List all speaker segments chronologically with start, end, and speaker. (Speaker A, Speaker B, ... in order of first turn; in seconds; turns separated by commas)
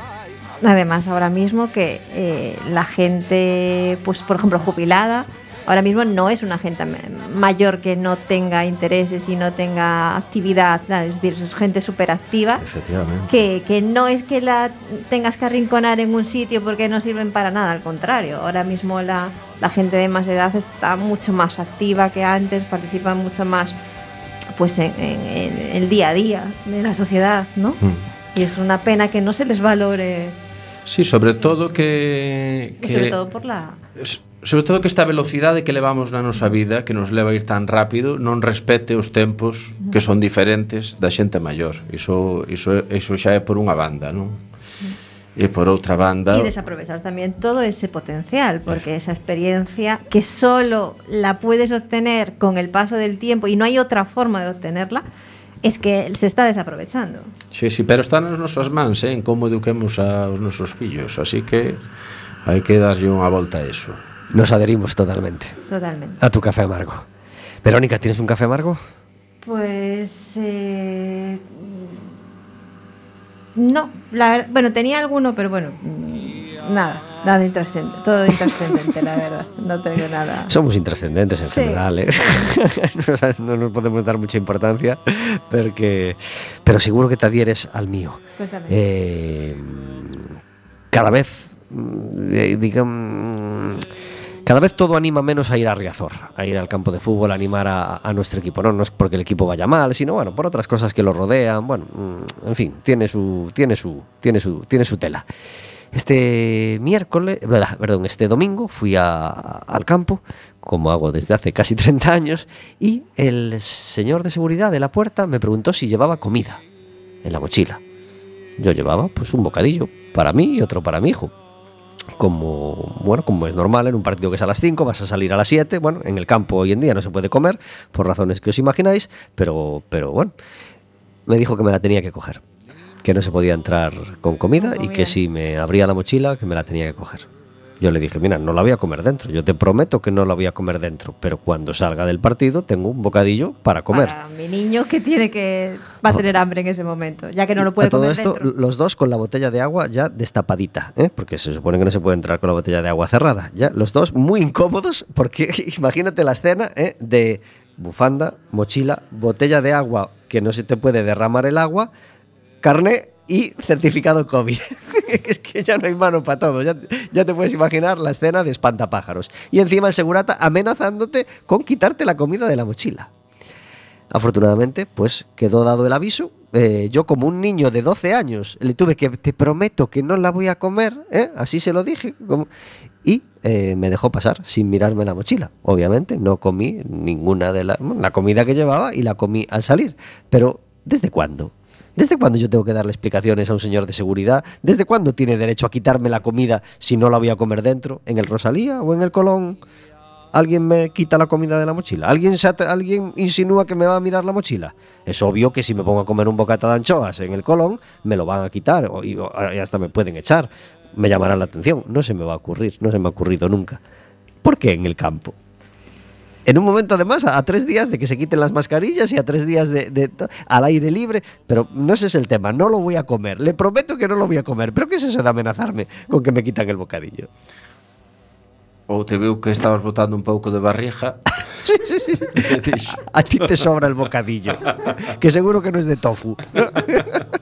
Speaker A: 0.6-12.6, Speaker B: 12.6-13.3, Speaker A: 13.3-23.8, Speaker A: 24.5-27.8, Speaker A: 28.3-30.4, Speaker B: 30.9-33.2, Speaker A: 31.4-31.7, Speaker A: 32.8-33.8, Speaker B: 34.0-44.4, Speaker B: 45.4-46.5, Speaker A: 46.3-55.0, Speaker A: 55.6-57.3, Speaker B: 57.5-61.8, Speaker B: 62.5-64.0, Speaker C: 64.3-65.6, Speaker A: 65.7-66.2, Speaker C: 66.2-67.1, Speaker C: 67.6-68.8, Speaker A: 69.4-72.0, Speaker A: 73.6-80.5, Speaker C: 80.5-90.3, Speaker A: 81.5-81.8, Speaker A: 88.4-88.8, Speaker C: 90.9-93.9, Speaker C: 94.5-105.3, Speaker C: 105.9-116.6, Speaker C: 117.2-117.8, Speaker C: 118.6-121.3, Speaker C: 122.2-130.3, Speaker C: 131.3-132.4, Speaker C: 133.0-137.3, Speaker A: 134.6-135.2, Speaker C: 137.8-144.2, Speaker A: 143.9-148.5, Speaker C: 147.6-161.9, Speaker C: 162.6-173.1, Speaker C: 174.1-182.5, Speaker C: 183.0-199.6, Speaker C: 200.3-213.8, Speaker C: 214.4-215.3, Speaker C: 216.5-227.3, Speaker B: 228.9-231.3, Speaker C: 231.7-232.5, Speaker B: 232.3-233.0, Speaker C: 233.0-237.2